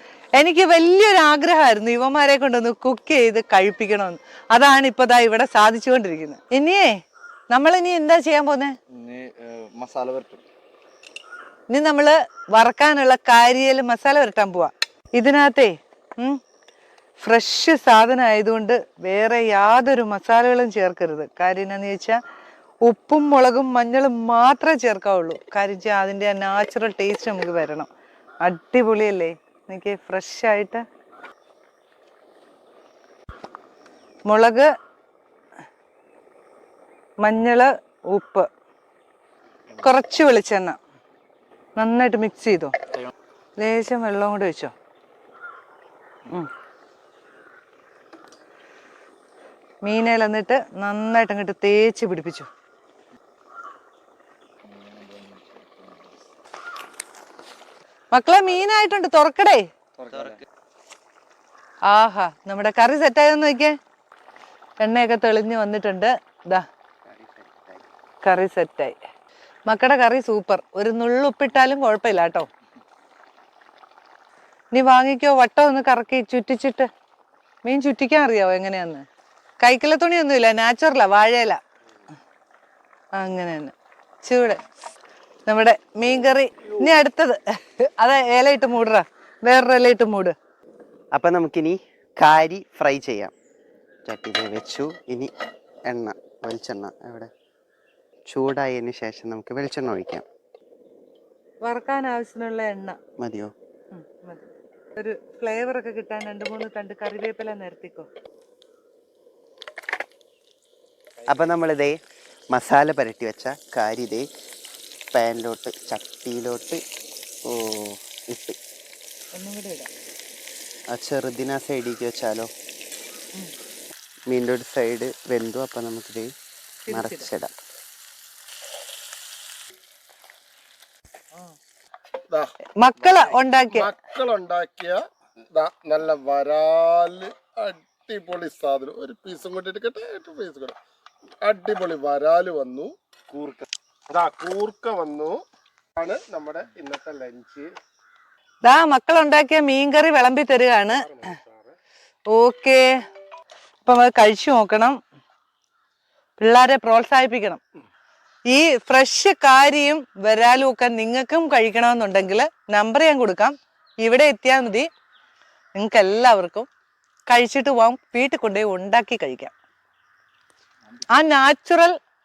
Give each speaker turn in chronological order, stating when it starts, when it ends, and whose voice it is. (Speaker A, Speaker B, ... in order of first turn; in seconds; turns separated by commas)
Speaker A: 0.4-8.8, Speaker B: 8.9-10.4, Speaker A: 11.7-16.4, Speaker A: 17.2-22.2, Speaker A: 22.9-27.9, Speaker A: 28.4-30.8, Speaker A: 34.3-34.7, Speaker A: 37.2-38.5, Speaker A: 39.8-40.8, Speaker A: 41.8-42.8, Speaker A: 43.6-44.7, Speaker A: 49.8-52.5, Speaker B: 54.6-56.2, Speaker A: 58.1-59.6, Speaker B: 60.0-60.4, Speaker C: 60.1-60.4, Speaker A: 61.9-63.8, Speaker A: 64.8-66.7, Speaker C: 67.1-67.9, Speaker A: 68.2-69.0, Speaker A: 69.7-72.5, Speaker A: 74.7-76.9, Speaker A: 77.6-79.1, Speaker A: 79.6-81.6, Speaker A: 83.2-84.6, Speaker A: 85.5-90.3, Speaker C: 91.1-93.3, Speaker C: 94.1-95.3, Speaker C: 95.9-97.3, Speaker C: 98.3-100.2, Speaker A: 101.6-103.0, Speaker C: 103.2-103.5, Speaker A: 103.9-108.1, Speaker C: 111.3-112.0, Speaker C: 112.5-114.3, Speaker C: 115.1-116.8, Speaker C: 117.5-118.6, Speaker A: 119.3-119.9, Speaker C: 120.9-122.5, Speaker C: 124.3-126.3, Speaker A: 126.9-127.3, Speaker C: 126.9-127.5, Speaker D: 132.3-140.8, Speaker A: 132.8-133.9, Speaker D: 141.4-145.4, Speaker D: 146.0-147.7, Speaker A: 148.6-151.3, Speaker D: 151.1-151.7, Speaker A: 152.3-152.9, Speaker A: 153.8-155.0, Speaker A: 156.4-157.6, Speaker A: 158.5-164.9, Speaker A: 165.8-166.7, Speaker A: 167.3-169.5, Speaker A: 171.1-171.9